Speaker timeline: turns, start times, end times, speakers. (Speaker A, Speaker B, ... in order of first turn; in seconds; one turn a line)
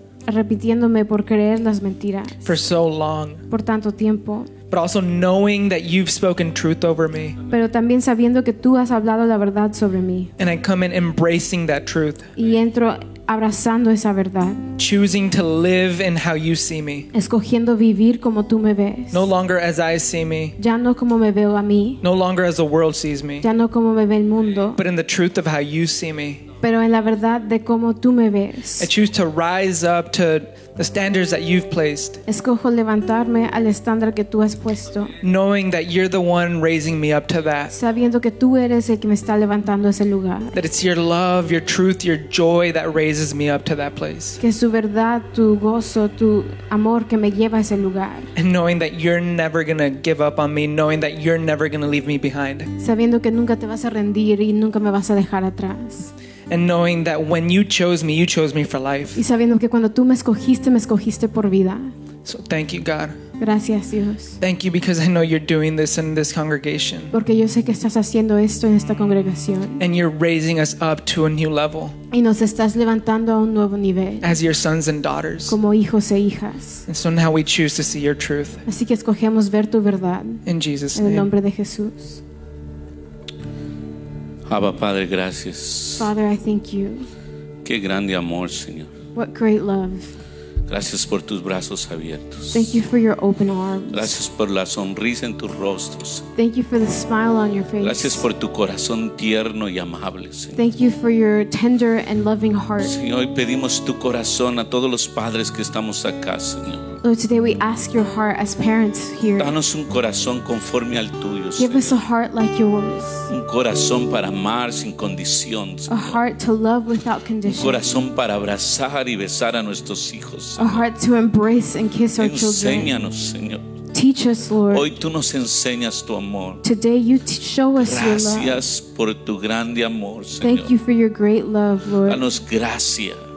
Speaker A: 0.3-2.5
Speaker B: 2.5-3.4
Speaker A: 3.5-4.5
Speaker B: 4.7-7.4
Speaker A: 7.5-10.3
Speaker B: 10.4-12.3
Speaker A: 12.4-14.7
Speaker B: 14.8-17.1
Speaker A: 17.1-19.3
Speaker B: 19.1-20.6
Speaker A: 20.6-22.0
Speaker B: 22.0-23.5
Speaker A: 23.4-24.8
Speaker B: 24.8-26.4
Speaker A: 26.6-28.9
Speaker B: 28.8-32.2
Speaker A: 32.3-35.1
Speaker B: 35.2-37.7
Speaker A: 37.7-40.6
Speaker B: 40.5-44.4
Speaker A: 44.4-48.3
Speaker B: 48.4-52.7
Speaker A: 52.8-56.1
Speaker B: 56.5-59.2
Speaker A: 59.1-61.9
Speaker B: 62.2-63.2
Speaker A: 63.4-64.4
Speaker B: 64.4-67.1
Speaker A: 67.1-69.8
Speaker B: 69.8-71.9
Speaker A: 72.1-74.3
Speaker B: 74.2-75.6
Speaker A: 75.5-76.8
Speaker B: 76.9-78.6
Speaker A: 78.7-82.2
Speaker B: 80.5-81.3
Speaker C: 84.5-86.1
Speaker A: 86.0-87.1
Speaker C: 87.6-88.9
Speaker A: 89.2-90.1
Speaker C: 90.7-92.8
Speaker A: 92.5-94.2
Speaker C: 93.9-96.2
Speaker A: 96.3-98.2
Speaker C: 97.8-100.6
Speaker A: 100.6-102.9
Speaker C: 102.8-106.9
Speaker A: 107.0-109.5
Speaker C: 109.4-112.0
Speaker A: 111.6-113.3
Speaker C: 113.3-116.2
Speaker A: 115.9-117.8
Speaker C: 117.4-120.9
Speaker A: 120.6-122.9
Speaker C: 122.2-123.6
Speaker A: 123.9-124.9
Speaker C: 124.7-126.6
Speaker A: 126.6-128.6
Speaker C: 127.8-130.7
Speaker A: 130.4-132.2
Speaker C: 132.1-133.2